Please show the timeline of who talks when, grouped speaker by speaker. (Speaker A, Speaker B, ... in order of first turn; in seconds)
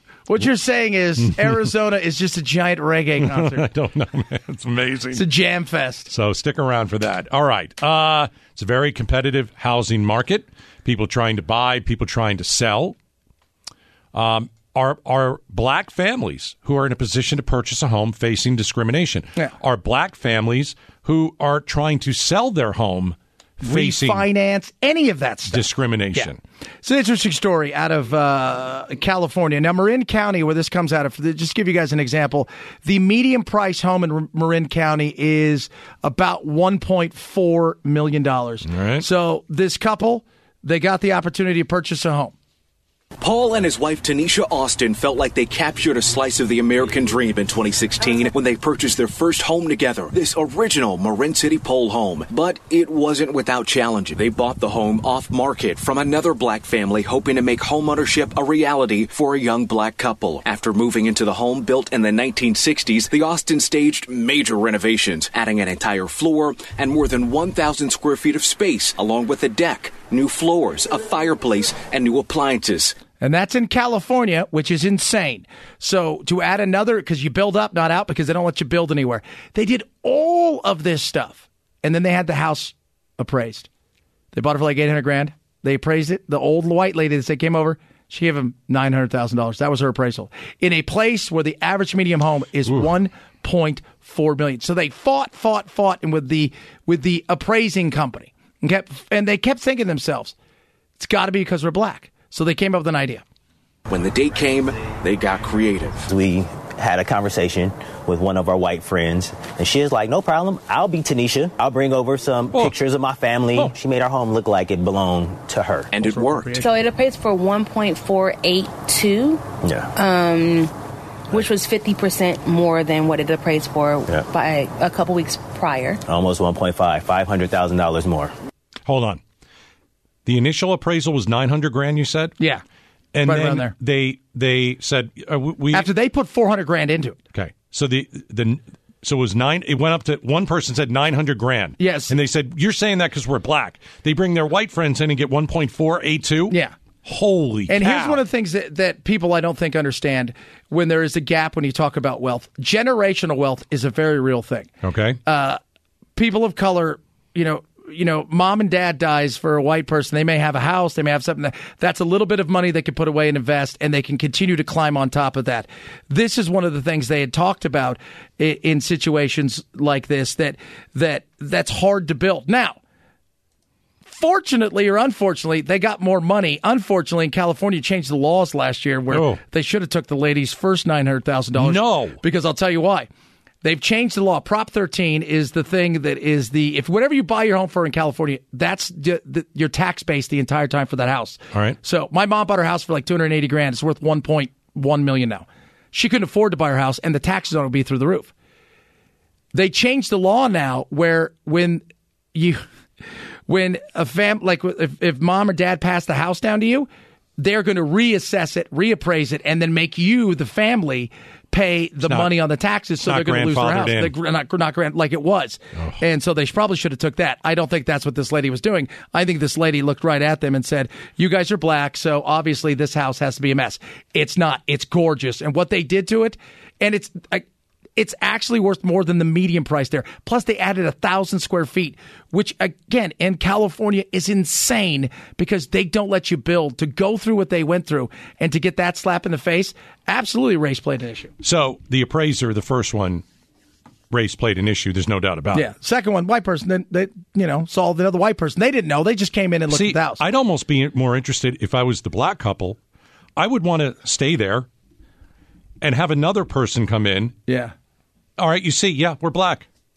Speaker A: 0.3-3.7, 5.1-6.1, 23.6-42.4, 73.2-83.7, 84.3-100.3, 101.0-103.2, 116.0-116.8, 133.2-133.7, 135.7-137.2, 141.8-142.1, 146.5-146.8, 147.7-154.7, 155.3-155.6, 156.2-172.8, 174.1-183.1, 183.6-198.3, 199.5-202.6, 203.5-227.4, 228.0-241.3, 245.5-250.2, 257.5-257.7
Speaker B: 3.2-5.2, 6.1-13.0, 14.1-24.2, 25.5-26.4, 38.7-39.0, 128.9-129.2, 130.2-132.4, 133.1-135.9, 137.3-148.2, 154.8-155.2, 179.1-179.4, 181.6-182.2, 191.5-191.8, 213.0-214.1, 241.4-243.2, 244.1-245.7, 249.7-252.8, 253.4-254.7, 255.8-257.4, 258.4-259.7
Speaker C: 43.2-73.0, 103.9-106.1, 115.9-116.6
Speaker D: 106.1-115.9, 119.6-119.9, 126.1-128.3
Speaker E: 116.6-119.4, 120.0-120.7, 121.3-126.0